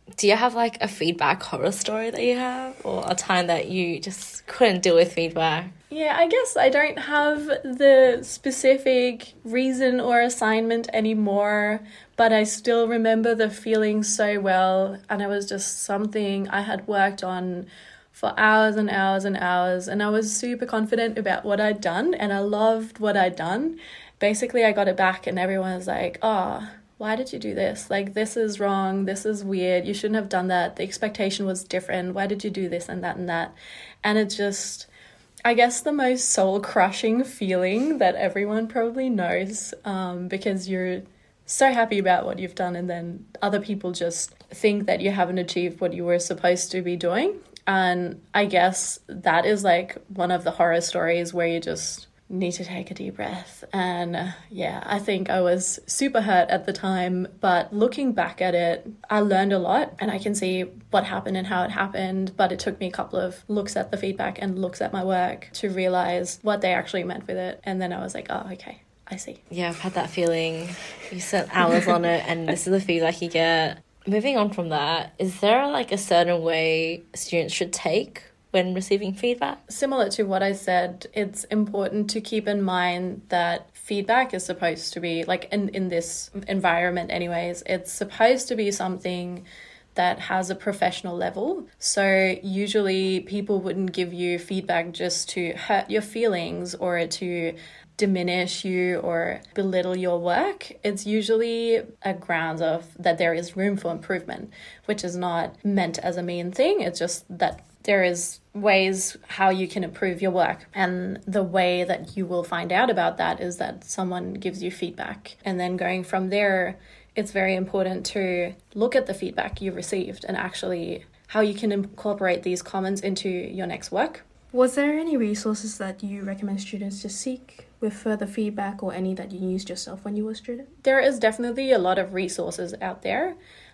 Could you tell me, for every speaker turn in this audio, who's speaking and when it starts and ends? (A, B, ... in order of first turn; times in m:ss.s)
0:00.2-0:05.7 A
0:05.9-0:34.9 B
0:35.4-1:09.4 B
1:09.5-1:19.6 A
1:19.7-2:04.2 B
2:04.5-2:10.7 C
2:10.8-2:13.4 B